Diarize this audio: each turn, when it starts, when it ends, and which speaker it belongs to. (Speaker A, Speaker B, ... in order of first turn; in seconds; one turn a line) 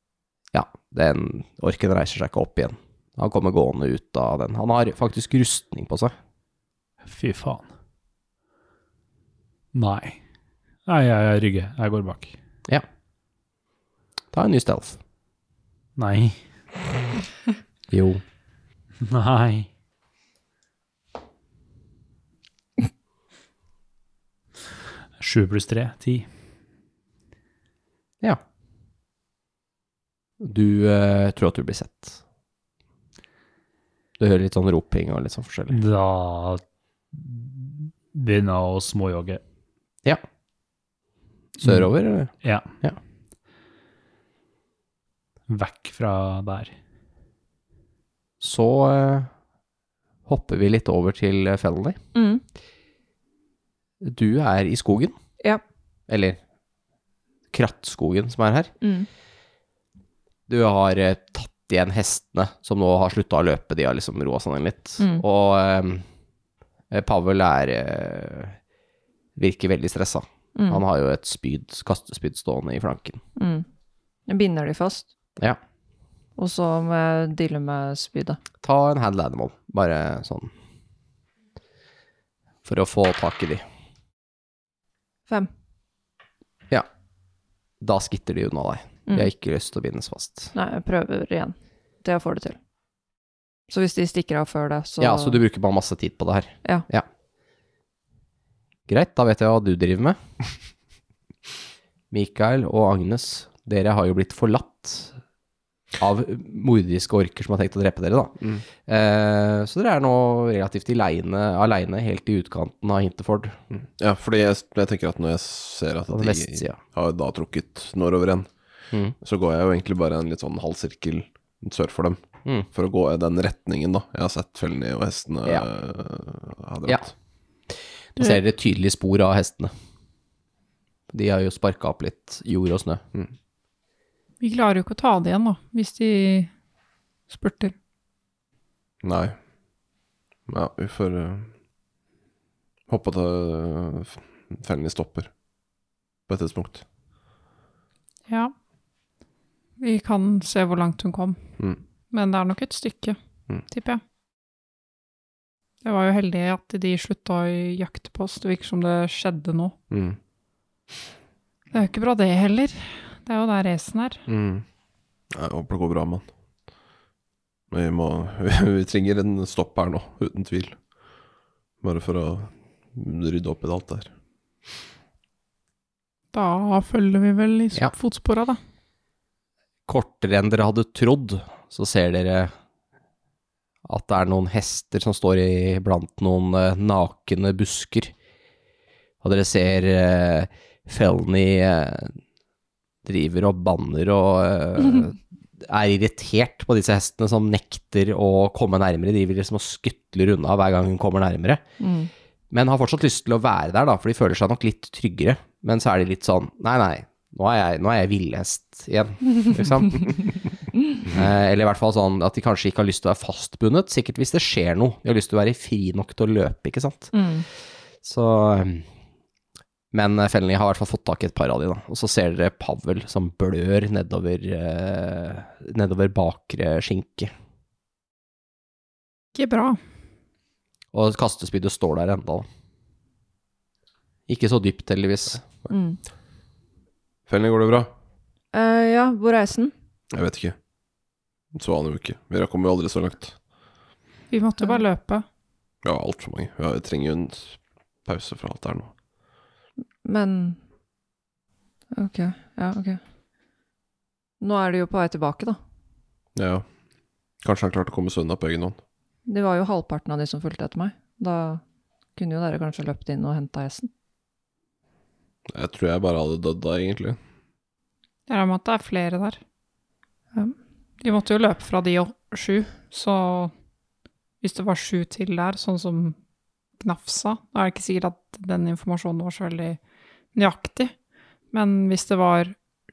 Speaker A: 0.5-6.1
Speaker B: 7.0-7.7
Speaker B: 9.7-10.2
Speaker B: 10.9-12.3
Speaker A: 14.3-15.0
Speaker B: 16.0-16.4
Speaker A: 17.9-18.2
Speaker B: 19.1-19.7
Speaker B: 25.2-26.3
Speaker A: 30.4-32.2
Speaker A: 34.2-35.8
Speaker B: 35.7-36.6
Speaker B: 37.1-39.4
Speaker A: 41.6-43.0
Speaker B: 41.6-41.9
Speaker B: 42.4-42.7
Speaker B: 45.5-46.7
Speaker A: 48.4-49.3
Speaker A: 50.3-52.0
Speaker C: 52.1-52.4
Speaker A: 54.0-55.2
Speaker A: 56.1-56.4
Speaker A: 57.5-58.7
Speaker C: 58.8-59.1
Speaker A: 60.5-66.0
Speaker C: 65.0-65.2
Speaker A: 66.9-68.6
Speaker A: 69.4-73.2
Speaker C: 70.5-70.8
Speaker C: 73.4-73.7
Speaker C: 74.3-75.1
Speaker C: 76.4-78.4
Speaker A: 78.6-80.5
Speaker A: 82.7-83.6
Speaker A: 87.8-90.5
Speaker C: 90.5-92.6
Speaker C: 93.7-95.4
Speaker A: 95.0-97.1
Speaker A: 98.9-100.2
Speaker A: 102.1-105.2
Speaker A: 106.0-113.6
Speaker D: 113.7-118.5
Speaker A: 116.1-116.8
Speaker D: 119.2-122.2
Speaker D: 122.7-127.1
Speaker A: 128.2-129.7
Speaker A: 131.1-133.0
Speaker E: 134.4-136.5
Speaker E: 137.3-137.7
Speaker D: 139.0-139.3
Speaker D: 140.5-141.5
Speaker D: 142.9-145.3
Speaker D: 146.3-146.8
Speaker E: 148.3-148.5
Speaker E: 149.8-151.4
Speaker E: 152.1-153.2
Speaker E: 153.7-154.0
Speaker E: 155.8-159.8
Speaker D: 159.9-160.2
Speaker E: 161.7-164.2
Speaker D: 164.3-164.7
Speaker D: 165.3-166.3
Speaker D: 167.7-170.8
Speaker D: 171.8-174.1
Speaker E: 176.3-178.6
Speaker A: 179.9-182.5
Speaker A: 183.8-188.1
Speaker A: 189.2-192.2
Speaker A: 193.1-201.6
Speaker C: 201.8-202.1
Speaker A: 202.5-210.3
Speaker A: 211.1-217.1
Speaker C: 217.1-217.5
Speaker A: 218.0-218.9
Speaker A: 219.9-227.3
Speaker E: 229.3-229.8
Speaker A: 230.9-232.5
Speaker A: 234.3-235.5
Speaker C: 235.7-236.0
Speaker D: 237.3-237.9
Speaker C: 238.5-239.7
Speaker D: 240.1-240.6
Speaker D: 241.5-243.4
Speaker E: 244.3-245.2
Speaker D: 245.8-248.9
Speaker C: 250.0-250.6
Speaker C: 251.9-253.0
Speaker C: 254.4-255.6
Speaker D: 256.4-256.7
Speaker D: 257.4-258.8
Speaker C: 259.3-261.6
Speaker C: 262.2-263.9
Speaker D: 265.5-267.2
Speaker E: 268.3-269.4
Speaker E: 271.0-273.5
Speaker E: 274.4-276.2
Speaker E: 276.8-279.8
Speaker E: 280.4-280.9
Speaker E: 281.5-282.6